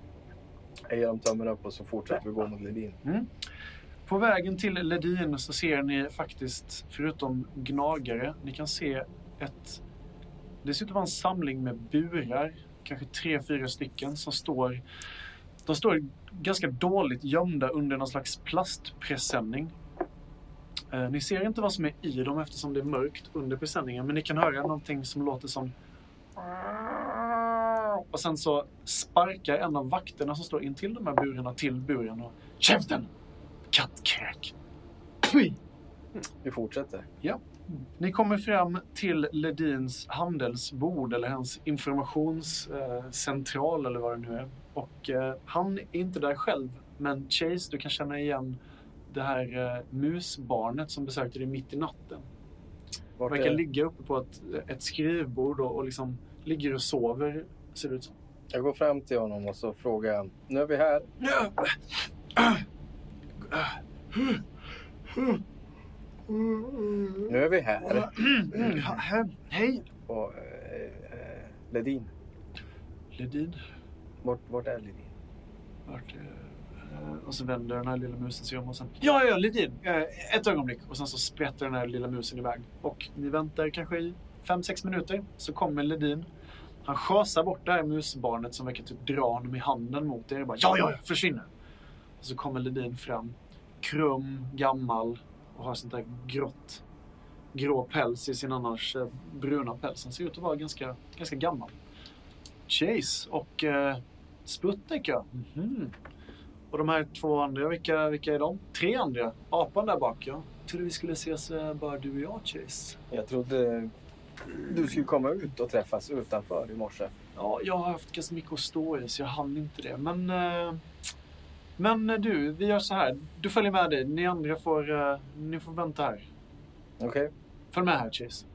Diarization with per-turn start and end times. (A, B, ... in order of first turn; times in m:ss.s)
0:00.9-0:03.0 A
0:03.0-0:03.3 B
0:04.0-0:09.8 B
0:10.6-0:14.8 B
0:15.6-0:19.7 B
0:20.9-0:25.7 B
0:26.4-0:33.1 B
0:33.7-0:34.5 B
0:35.2-0:35.6 B
0:36.4-0:37.0 A
0:37.2-0:52.3 B
0:53.2-0:53.6 A
0:53.3-0:58.1 B
0:58.5-1:01.1 A
1:01.2-1:01.7 B
1:02.4-1:02.6 B
1:03.5-1:04.4 B
1:06.5-1:07.1 B
1:07.2-1:08.8 A
1:07.9-1:09.8 B
1:10.1-1:12.1 A
1:13.1-1:13.6 B
1:14.2-1:15.1 A
1:15.9-1:26.3 B
1:26.8-1:31.5 B
1:32.2-1:36.8 B
1:37.5-1:41.7 B
1:42.7-1:45.9 B
1:46.7-1:53.0 B
1:53.1-1:53.9 A
1:54.6-1:57.1 A
1:57.3-2:00.8 B
2:01.8-2:06.3 B
2:07.0-2:07.3 A
2:07.7-2:08.4 B